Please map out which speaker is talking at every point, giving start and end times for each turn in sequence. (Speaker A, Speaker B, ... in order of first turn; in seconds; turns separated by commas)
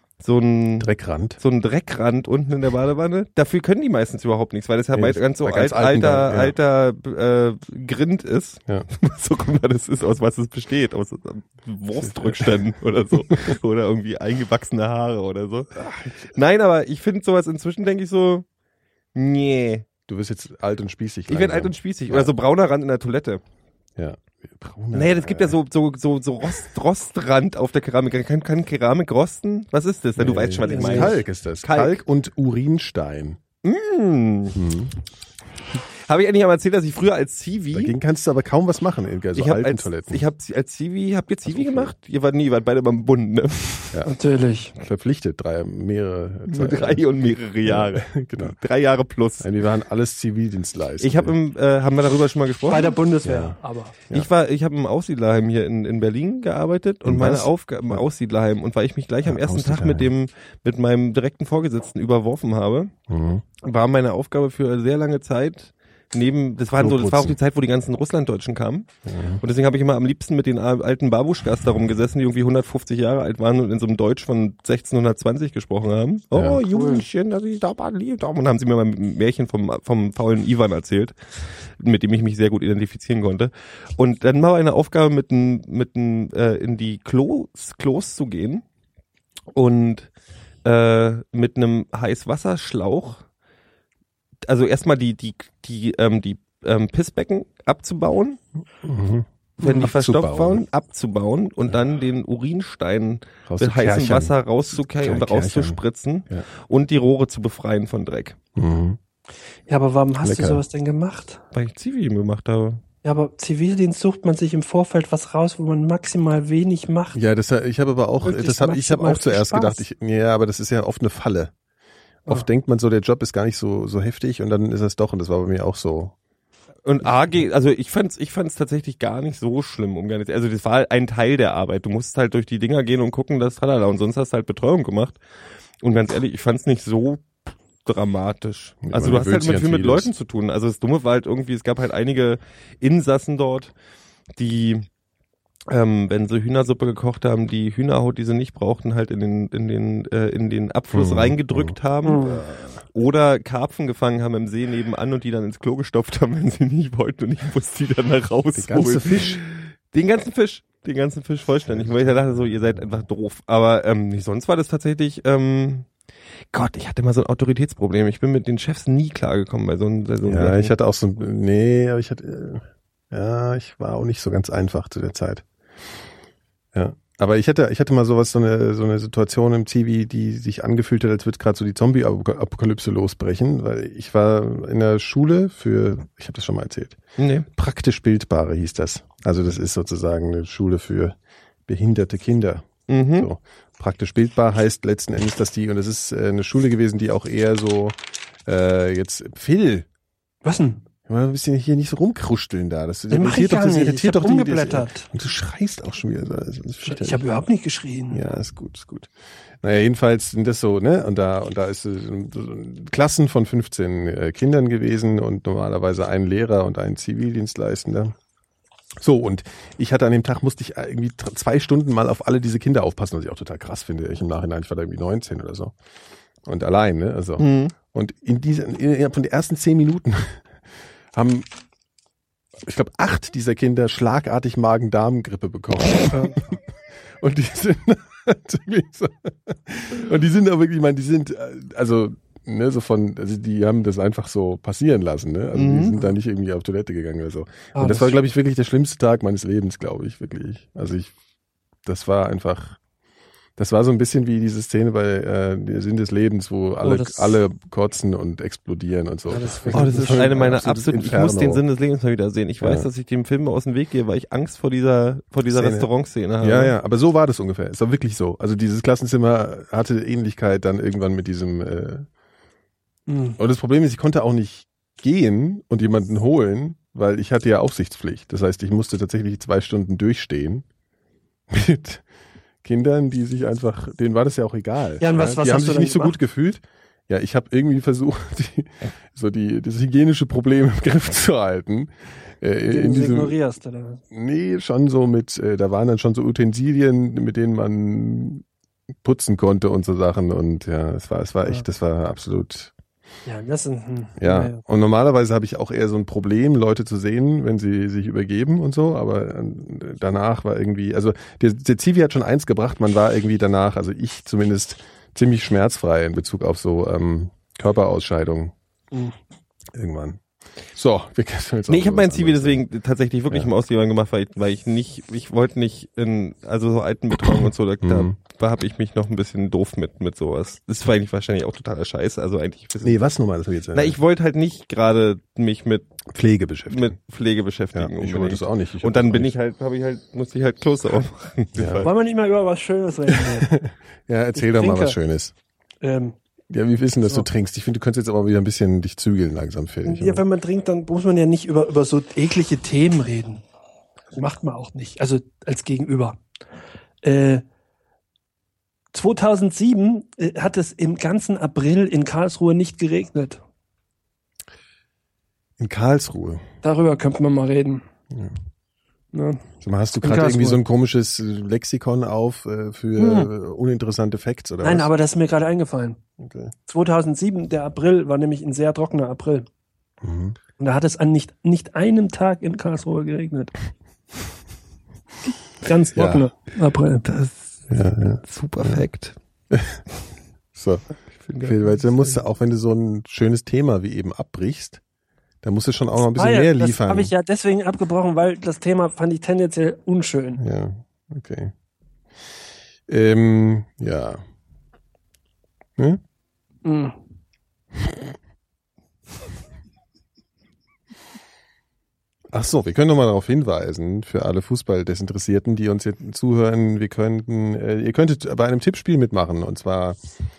Speaker A: 0.2-18.4, Speaker B: 0.8-1.4, Speaker B: 4.9-6.5, Speaker B: 12.0-12.6, Speaker B: 15.7-16.2, Speaker A: 19.1-19.9, Speaker B: 20.1-22.3, Speaker A: 21.3-23.4, Speaker B: 23.9-25.6, Speaker A: 24.9-32.0, Speaker B: 30.2-33.4, Speaker C: 30.6-31.2, Speaker A: 33.6-34.6, Speaker B: 34.5-34.9, Speaker A: 36.0-38.0, Speaker B: 37.7-40.2, Speaker A: 39.3-44.0, Speaker B: 41.5-41.9, Speaker C: 44.0-44.7, Speaker B: 44.8-47.0, Speaker A: 46.5-49.5, Speaker B: 47.6-48.5, Speaker B: 49.4-51.4, Speaker A: 51.0-53.0, Speaker C: 52.7-54.0, Speaker B: 53.2-53.6, Speaker A: 54.1-62.9, Speaker B: 57.0-58.0, Speaker B: 59.2-60.1, Speaker B: 63.1-63.4, Speaker A: 63.6-68.9, Speaker B: 66.8-67.4, Speaker B: 69.0-69.4, Speaker A: 69.4-81.1, Speaker B: 76.3-76.6, Speaker C: 76.7-77.0, Speaker A: 81.8-88.6, Speaker A: 89.5-90.1, Speaker A: 90.6-93.2, Speaker A: 94.5-98.4, Speaker B: 98.8-100.6, Speaker A: 99.6-108.4, Speaker B: 103.5-104.3, Speaker B: 105.0-106.5, Speaker B: 108.5-109.0, Speaker C: 109.7-111.4, Speaker B: 110.2-110.6, Speaker A: 111.5-112.8, Speaker C: 113.0-117.2, Speaker B: 117.1-121.5, Speaker C: 118.2-119.8, Speaker B: 122.3-126.1, Speaker A: 126.8-135.2, Speaker A: 135.8-137.3, Speaker A: 137.8-143.7, Speaker B: 138.8-140.1, Speaker A: 144.4-144.9, Speaker A: 145.7-152.3, Speaker B: 150.9-152.8, Speaker C: 152.0-152.4, Speaker A: 152.9-165.9, Speaker B: 158.5-159.4, Speaker B: 161.7-162.8, Speaker A: 166.5-170.7, Speaker B: 170.2-175.4, Speaker B: 176.7-187.0, Speaker A: 187.2-187.5, Speaker B: 187.5-191.2, Speaker B: 191.7-199.8, Speaker A: 192.9-193.3, Speaker C: 200.4-200.8, Speaker B: 201.1-207.2, Speaker C: 203.1-205.1, Speaker C: 206.8-208.2, Speaker B: 208.1-218.1, Speaker B: 219.0-225.7, Speaker B: 226.4-230.5, Speaker A: 227.4-227.7, Speaker B: 231.1-231.4, Speaker B: 232.6-251.1, Speaker A: 245.5-246.1, Speaker C: 247.7-248.2, Speaker B: 251.8-252.8, Speaker B: 253.6-261.6, Speaker C: 256.8-257.4, Speaker C: 259.3-260.2, Speaker A: 259.7-266.7, Speaker B: 262.6-262.9, Speaker B: 265.5-265.9, Speaker B: 266.4-272.1, Speaker C: 273.1-273.4, Speaker B: 273.4-280.6, Speaker B: 281.5-282.0, Speaker B: 282.6-293.4, Speaker C: 285.0-286.1, Speaker C: 292.7-294.0, Speaker B: 294.1-298.4, Speaker B: 299.0-302.7, Speaker C: 303.2-304.6, Speaker B: 304.2-318.5, Speaker B: 319.7-320.2, Speaker B: 320.7-322.6, Speaker A: 321.7-333.0, Speaker B: 327.8-328.1, Speaker B: 332.8-334.0, Speaker A: 333.7-335.9, Speaker B: 336.1-336.9, Speaker A: 336.7-341.9, Speaker B: 337.7-339.3, Speaker B: 341.6-341.9, Speaker C: 341.8-343.5, Speaker B: 343.1-345.3, Speaker C: 344.3-345.0, Speaker C: 345.8-346.2, Speaker B: 346.5-350.2, Speaker C: 349.8-353.4, Speaker C: 354.1-356.2, Speaker C: 357.0-357.4, Speaker C: 358.9-363.4, Speaker B: 365.6-366.4, Speaker C: 366.6-367.8, Speaker C: 369.1-369.4, Speaker B: 369.6-374.9, Speaker C: 370.0-370.6, Speaker C: 373.0-373.3, Speaker C: 374.6-376.0, Speaker B: 376.2-376.5, Speaker C: 376.7-379.5, Speaker B: 380.0-380.4, Speaker C: 380.6-383.5, Speaker C: 385.6-387.1, Speaker B: 385.9-386.3, Speaker A: 387.0-389.1, Speaker B: 387.7-388.8, Speaker B: 389.5-389.8, Speaker B: 390.5-390.8, Speaker A: 391.2-392.1, Speaker B: 391.4-394.8, Speaker B: 395.4-397.1, Speaker C: 396.1-400.4, Speaker B: 400.4-401.5, Speaker B: 402.9-404.2, Speaker C: 406.6-407.0, Speaker B: 412.3-420.0